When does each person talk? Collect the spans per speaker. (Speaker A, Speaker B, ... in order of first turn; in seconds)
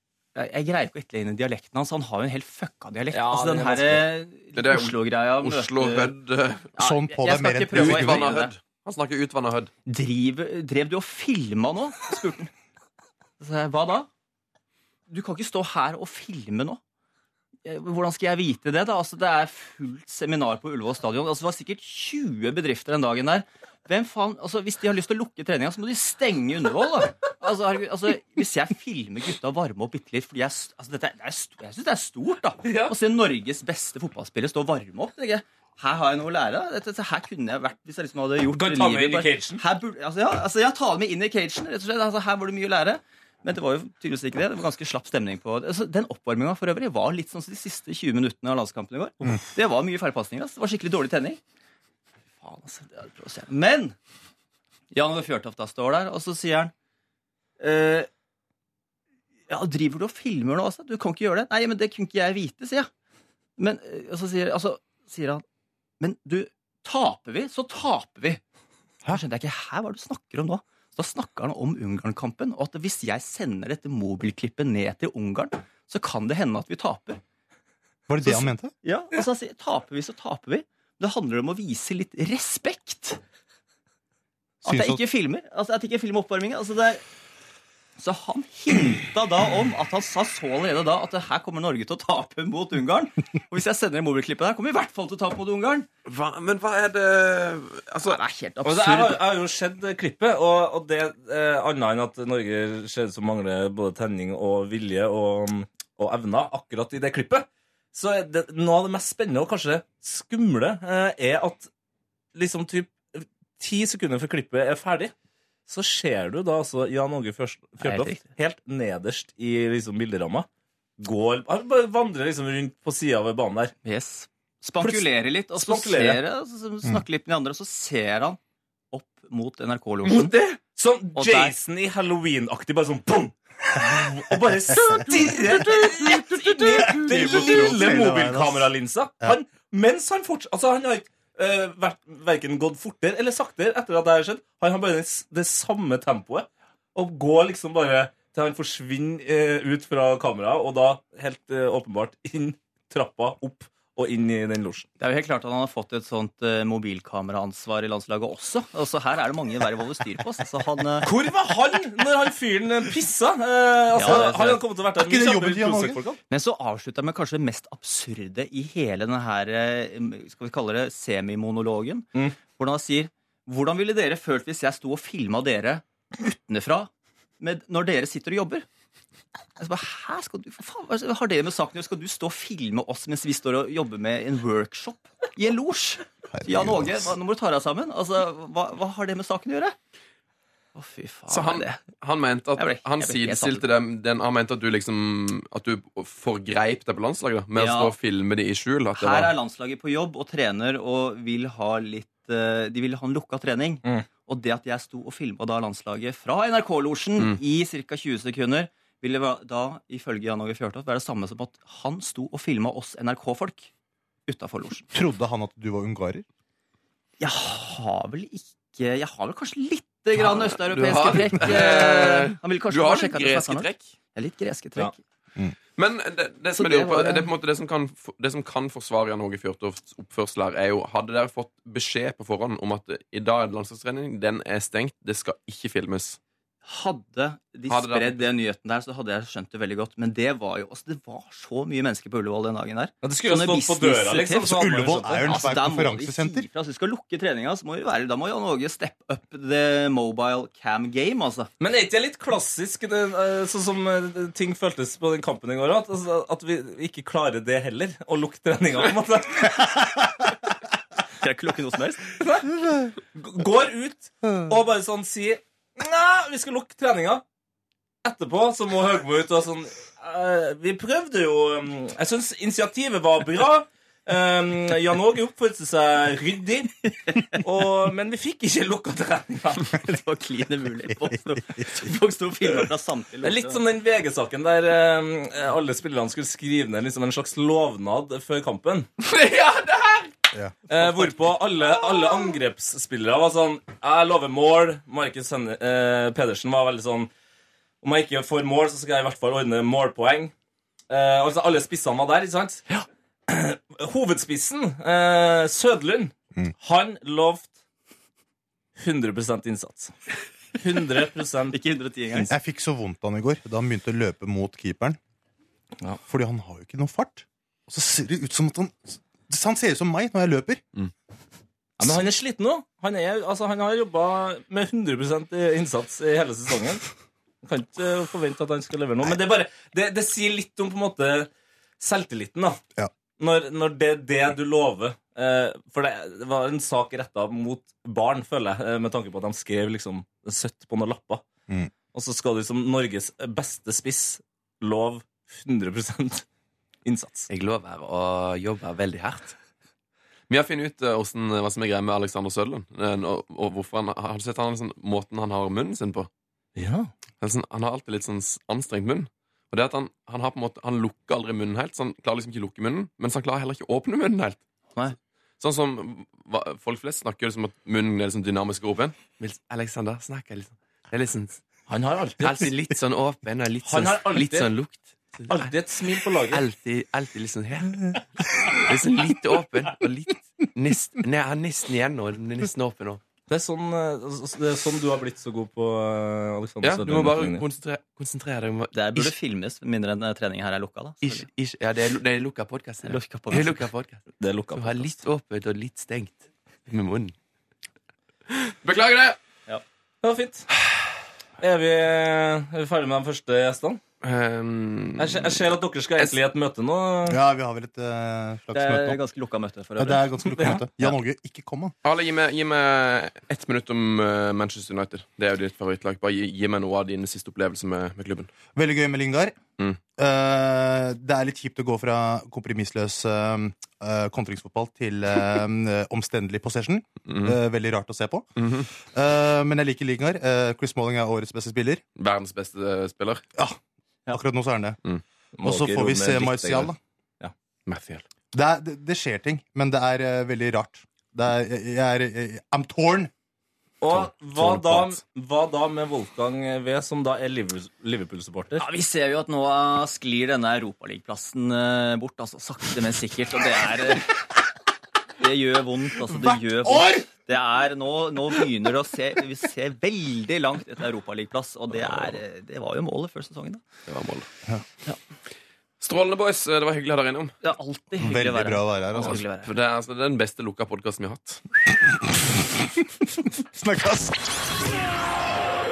Speaker A: 0.3-6.1, 6.7-8.6, 9.9-12.5, 13.4-14.1, 15.1-16.8, 17.6-51.4, 52.4-53.9, 54.9-56.7, 57.6-58.1, 59.5-62.9, 63.6-65.4, 66.0-68.4, 69.1-77.2, 78.2-83.2, 84.6-87.0, 88.0-95.9, 98.0-99.2, 117.8-118.2, 123.8-128.4, 128.9-130.4, 131.2-131.5, 155.0-161.1, 163.9-164.6, 166.3-178.7, 179.6-189.8, 190.7-191.8, 192.6-193.6, 197.5-197.9, 198.9-213.7, 214.3-214.9, 217.2-224.9, 226.6-227.3, 236.6-251.5, 261.2-262.1, 279.8-283.6, 311.5-312.3, 388.7-391.3, 392.8-393.7, 408.6-410.6, 448.6-454.2, 455.2-463.6, 467.4-469.5
Speaker B: 3.1-4.1, 32.6-32.9, 38.5-39.6, 98.6-111.7, 112.3-115.1, 115.7-120.5, 121.0-123.7, 124.8-126.2, 130.7-154.9, 161.0-166.2, 243.0-245.4, 251.6-259.6, 262.2-262.5, 263.1-267.2, 268.0-276.8, 277.3-279.8, 283.2-288.9, 290.7-297.1, 297.8-300.3, 300.9-302.6, 303.3-307.5, 308.8-309.9, 310.6-311.6, 321.8-326.8, 327.4-332.6, 333.2-341.2, 341.9-346.2, 346.9-347.3, 356.6-356.9, 371.7-372.5, 373.6-374.5, 375.3-376.4, 383.3-387.4, 394.2-394.9, 400.0-400.5, 401.4-403.8, 405.0-407.2, 435.4-437.3, 443.8-448.6
Speaker C: 4.5-6.7, 7.7-9.7, 96.1-98.2, 130.1-130.6, 191.3-199.3, 220.2-223.9, 225.8-236.2, 237.7-238.2, 289.0-290.1, 347.3-349.3, 350.3-356.1, 357.2-364.4, 365.4-371.4, 372.2-375.5, 376.3-383.0, 386.6-389.1, 391.0-394.0, 394.5-397.1, 398.3-399.2, 404.0-405.4, 411.8-418.3, 427.1-427.3, 428.4-428.7, 431.9-433.2, 437.7-438.0, 444.3-445.0, 463.9-464.2, 465.8-467.3, 469.0-471.4
Speaker D: 6.8-8.3, 78.1-78.7, 84.6-85.0, 136.8-139.4, 164.0-164.3, 165.0-166.0, 186.3-187.1, 214.9-216.2, 244.4-246.5, 312.3-315.0, 316.1-320.6, 407.1-409.0, 409.8-411.7, 418.5-419.4, 420.0-428.3, 428.8-431.8, 434.1-434.8, 435.4-436.8, 438.3-443.1, 456.1-457.0, 468.0-469.2, 473.4-474.1